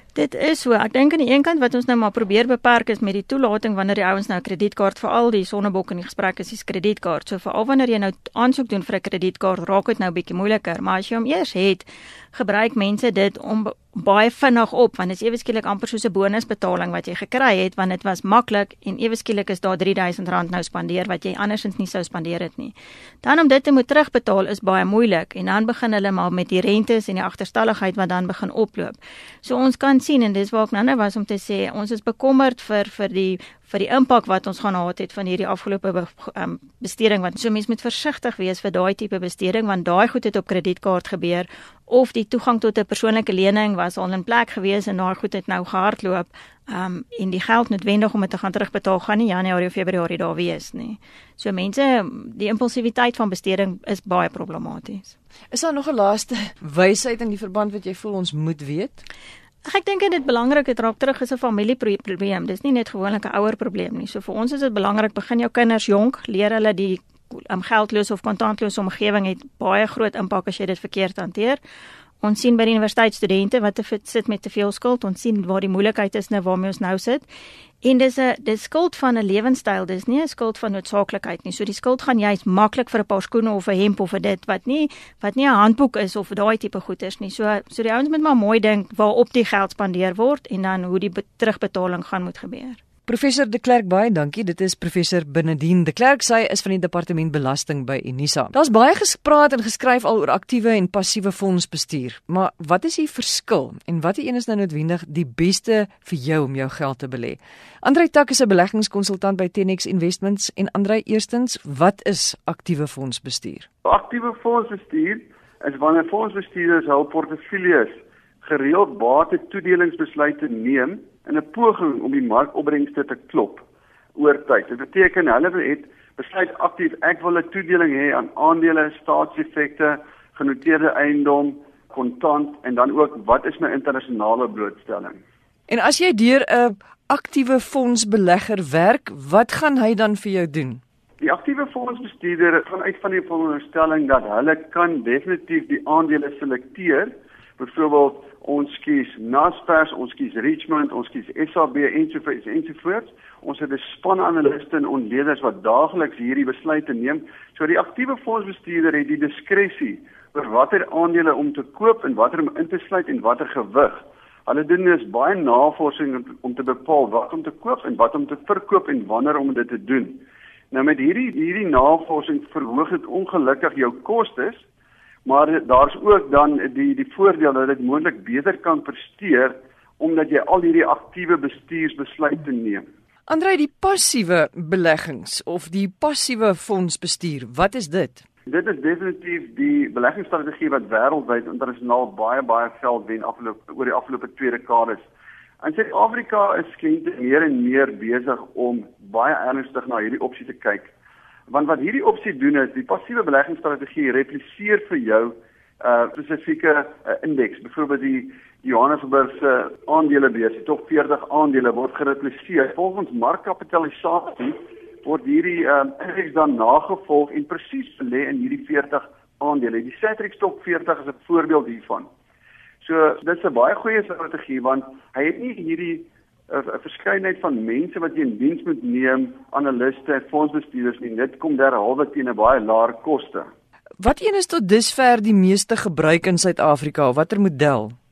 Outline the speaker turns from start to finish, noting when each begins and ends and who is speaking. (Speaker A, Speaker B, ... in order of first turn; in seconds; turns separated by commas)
Speaker A: 0.1-55.1, Speaker B: 55.5-59.0, Speaker A: 59.6-71.6, Speaker A: 72.2-77.3, Speaker A: 77.8-92.8, Speaker B: 93.1-113.7, Speaker C: 113.8-123.6, Speaker C: 124.2-135.2, Speaker B: 135.7-140.8, Speaker C: 141.2-174.6, Speaker C: 175.3-182.8, Speaker B: 183.3-188.2, Speaker C: 188.5-195.1, Speaker C: 195.6-200.9, Speaker C: 201.5-222.1, Speaker C: 222.8-233.5, Speaker B: 234.0-238.0